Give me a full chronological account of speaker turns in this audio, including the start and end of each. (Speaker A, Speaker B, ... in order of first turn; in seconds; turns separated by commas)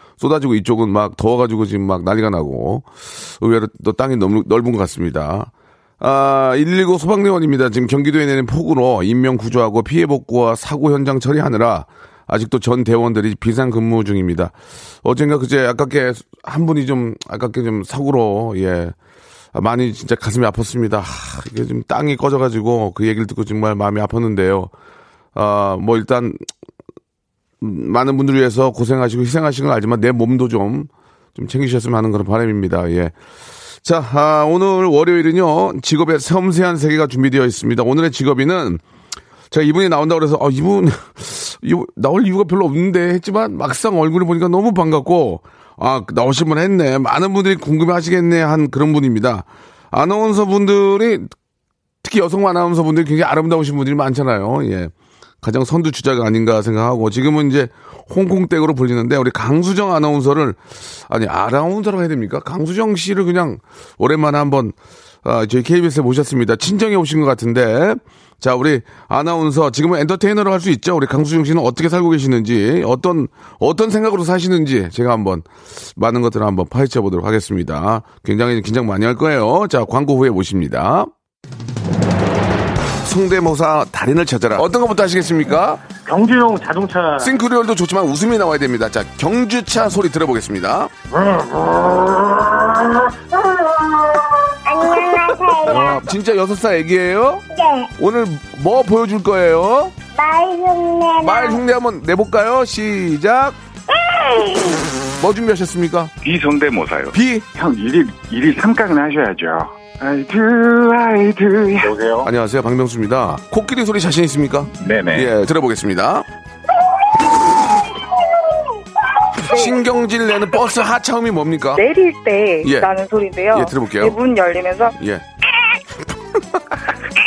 Speaker A: 0.2-18.9, Speaker A: 19.5-24.7, Speaker A: 25.3-26.4, Speaker A: 27.6-33.1, Speaker A: 33.8-38.8, Speaker A: 39.5-51.3, Speaker A: 52.0-81.1, Speaker A: 83.0-85.8, Speaker B: 85.9-87.3, Speaker A: 87.2-90.9, Speaker B: 91.1-92.9, Speaker C: 93.3-96.0, Speaker A: 95.7-97.4, Speaker C: 97.5-97.9, Speaker A: 98.0-100.0, Speaker C: 100.1-101.6, Speaker A: 101.2-103.6, Speaker C: 103.9-104.9, Speaker A: 105.2-106.1, Speaker D: 106.2-112.2, Speaker A: 107.1-107.4, Speaker B: 111.8-112.2, Speaker A: 112.2-116.2, Speaker D: 114.8-115.3, Speaker A: 119.4-121.9, Speaker E: 119.5-119.8, Speaker E: 121.8-124.9, Speaker A: 122.6-122.9, Speaker A: 123.5-124.2, Speaker A: 125.0-125.2, Speaker A: 126.0-126.8